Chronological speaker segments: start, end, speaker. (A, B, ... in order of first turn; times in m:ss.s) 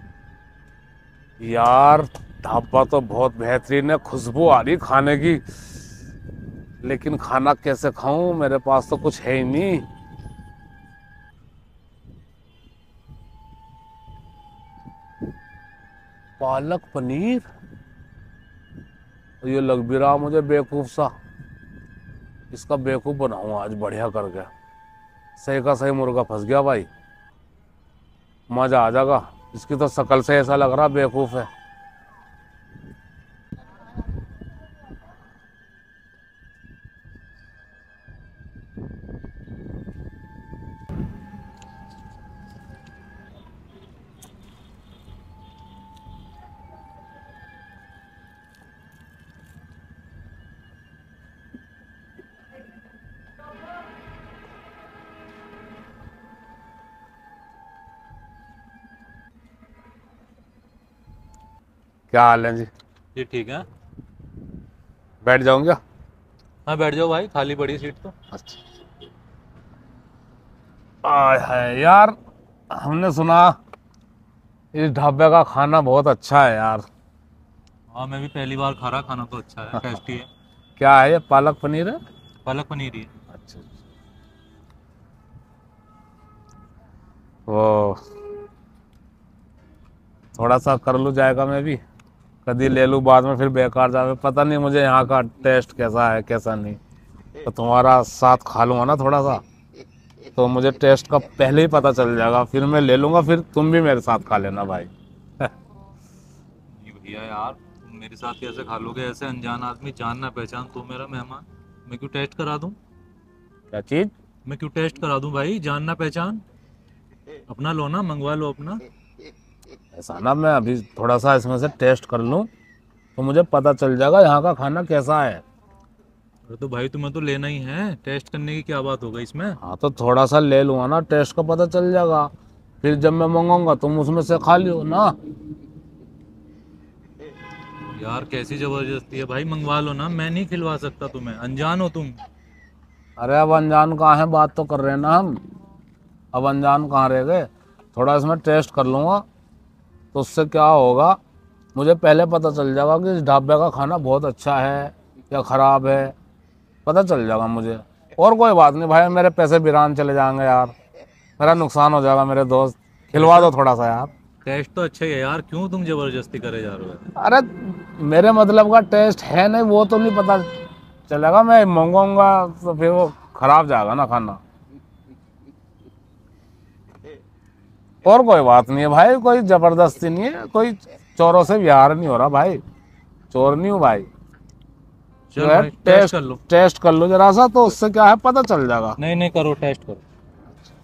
0:01.4-0:05.4 A
0:06.8-0:09.8 A
0:16.4-0:17.4 A
0:19.4-0:21.1 A
0:22.5-0:24.5 A
0:25.4-0:26.9 A
0:28.5-0:31.5 A
1:02.1-1:02.7 A
1:03.1-1:03.7 B
1:05.2-1:05.8 A
1:06.6-1:08.1 B
1:08.3-1:08.6 A
1:11.0-1:12.1 A
1:12.7-1:13.5 A
1:14.7-1:16.8 A
1:17.9-1:20.3 B
1:20.8-1:22.0 A
1:22.4-1:23.1 B
1:23.3-1:23.8 A
1:27.5-1:28.0 A
1:30.3-1:31.8 A
1:32.4-1:36.8 A
1:37.4-1:39.4 A
1:40.4-1:44.9 A
1:46.7-1:52.8 B
1:53.7-1:54.1 A
1:54.4-1:56.4 B
1:57.5-1:58.8 B
2:00.0-2:02.5 A
2:03.2-2:05.4 A
2:06.5-2:09.6 B
2:09.6-2:12.3 A
2:12.8-2:15.1 A
2:17.9-2:22.2 B
2:23.2-2:25.4 A
2:26.3-2:29.2 A
2:30.1-2:31.2 A
2:31.7-2:36.1 A
2:36.8-2:40.7 A
2:41.4-2:44.1 A
2:43.1-2:43.5 B
2:44.4-2:47.0 B
2:47.2-2:50.5 A
2:51.1-2:54.4 A
2:58.0-3:02.6 A
3:03.3-3:04.1 A
3:05.3-3:06.4 B
3:05.4-3:09.0 A
3:09.0-3:10.0 B